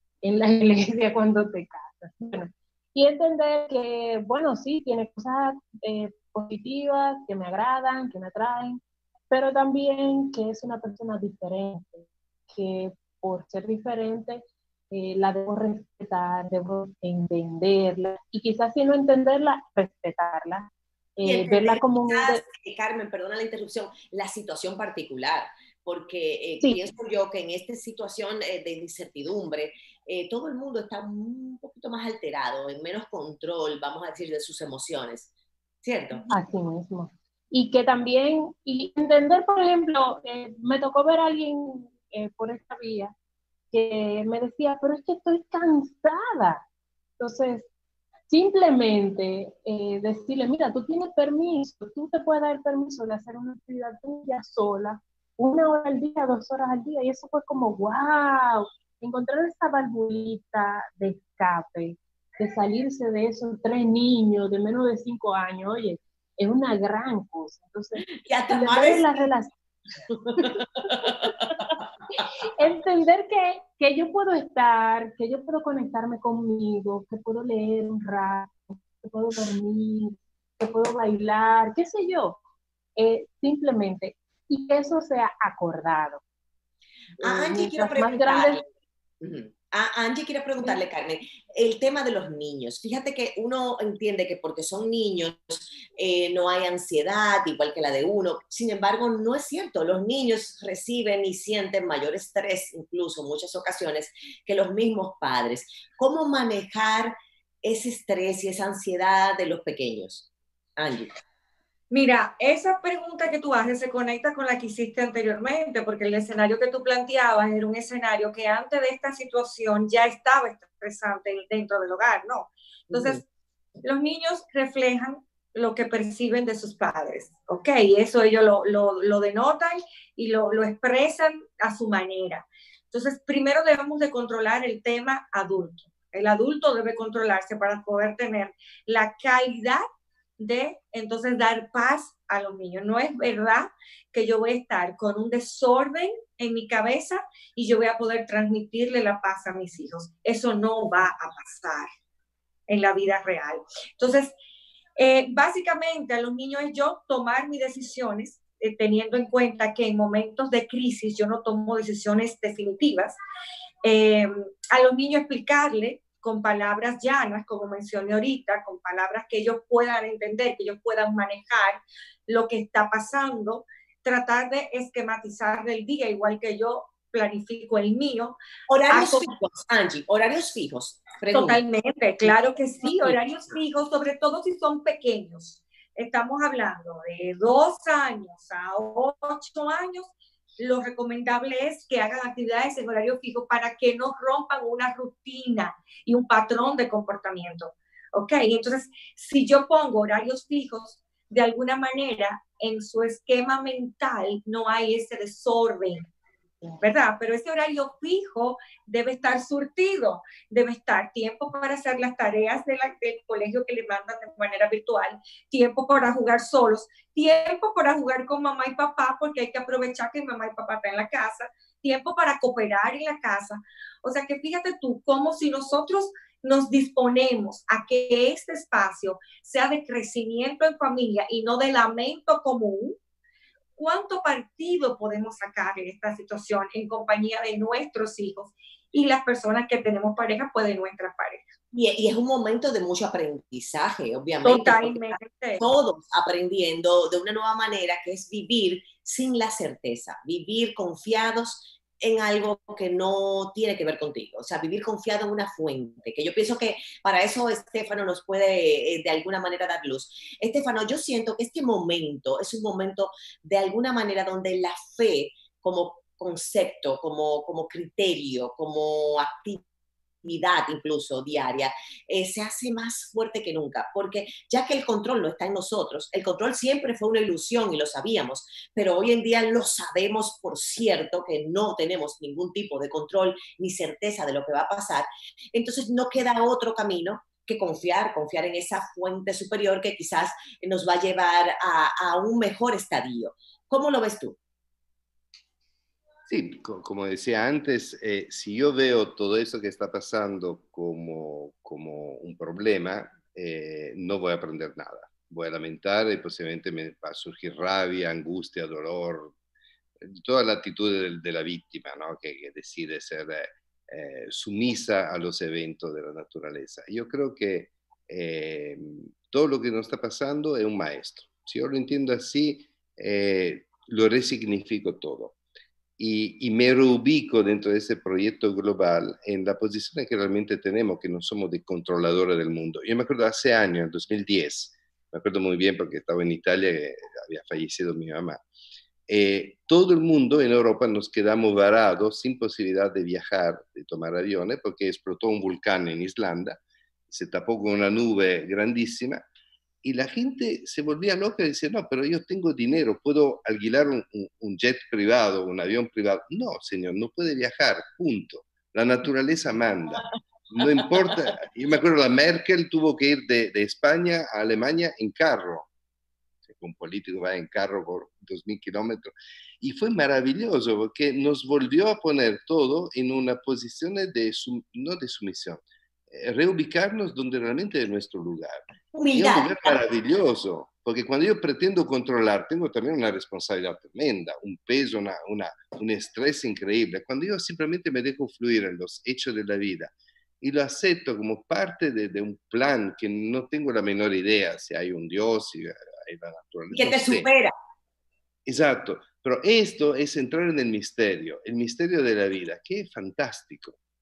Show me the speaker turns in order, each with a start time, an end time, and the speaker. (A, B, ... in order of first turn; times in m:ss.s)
0:00.2-0:22.4 A
0:21.2-0:35.3 B
0:35.8-0:36.3 B
0:36.3-0:43.1 A
0:43.7-0:46.6 A
0:47.2-0:47.7 A
0:48.3-1:09.5 A
1:08.2-1:09.1 B
1:10.3-1:11.7 B
1:10.4-1:11.8 A
1:12.6-1:22.4 A
1:23.0-1:26.2 A
1:27.2-1:28.6 A
1:27.2-1:28.6 B
1:29.2-1:51.2 B
1:51.9-2:03.2 C
2:02.9-2:03.2 B
2:03.8-2:19.8 C
2:20.4-2:31.9 C
2:32.7-2:34.3 C
2:35.0-2:43.2 C
2:43.8-2:58.4 C
2:58.7-3:01.6 B
2:58.9-2:59.3 C
3:01.3-3:26.1 C
3:02.8-3:03.2 B
3:26.8-3:53.0 C
3:53.8-4:01.5 C
4:01.7-4:29.6 B
4:04.4-4:05.6 C
4:30.2-4:54.4 B
4:56.3-5:09.3 D
5:10.0-5:25.4 D
5:26.0-5:38.4 D
5:39.1-5:49.2 D
5:49.8-6:05.7 D
6:06.5-6:37.3 D
6:18.9-6:19.8 B
6:36.7-6:37.5 B
6:38.5-6:43.8 D